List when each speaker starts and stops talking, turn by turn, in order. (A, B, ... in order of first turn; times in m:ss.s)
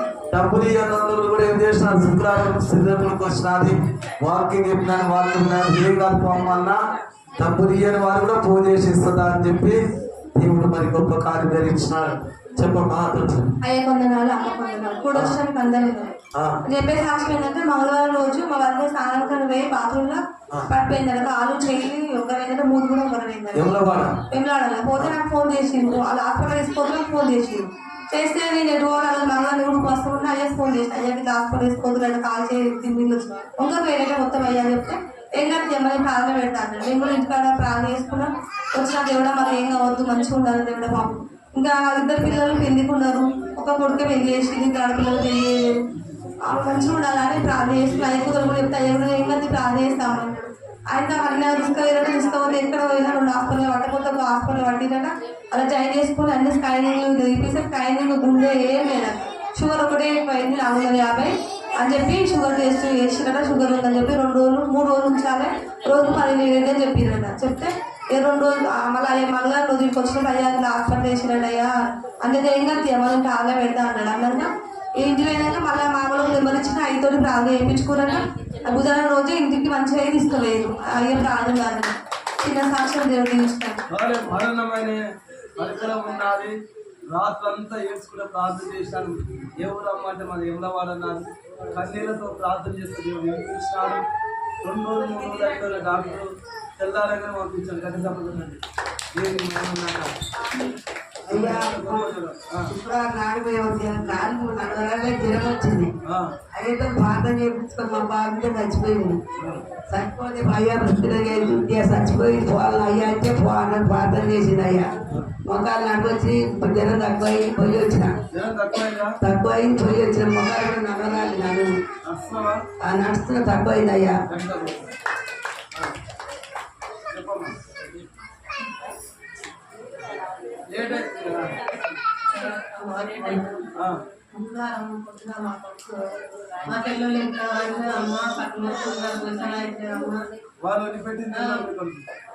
0:00.3-0:06.8 A
0:07.4-0:09.8 A
0:10.3-0:13.5 A
0:13.6-0:16.1 B
0:16.3-0:16.6 A
0:16.7-0:20.2 B
0:20.7-0:23.6 B
0:23.5-0:24.2 A
0:24.3-0:45.7 B
0:46.4-1:11.7 B
1:12.2-1:14.5 B
1:15.0-1:21.9 B
1:22.4-1:23.8 B
1:23.9-1:25.0 C
1:25.6-1:26.5 C
1:27.1-1:34.0 C
1:34.6-1:38.6 C
1:39.1-1:40.1 C
1:41.3-1:42.7 C
1:43.5-1:45.9 D
1:46.1-1:46.3 C
1:46.5-1:49.2 D
1:49.4-1:49.6 C
1:49.9-1:54.8 D
1:55.4-1:58.1 D
1:58.3-1:59.2 C
1:59.2-2:01.7 D
2:02.0-2:02.6 C
2:02.8-2:04.1 D
2:04.3-2:04.9 C
2:07.1-2:07.6 C
2:10.7-2:11.6 C
2:12.3-2:13.7 E
2:13.7-2:14.0 C
2:14.3-2:16.0 E
2:16.6-2:20.2 E
2:20.6-2:22.0 C
2:21.4-2:21.6 E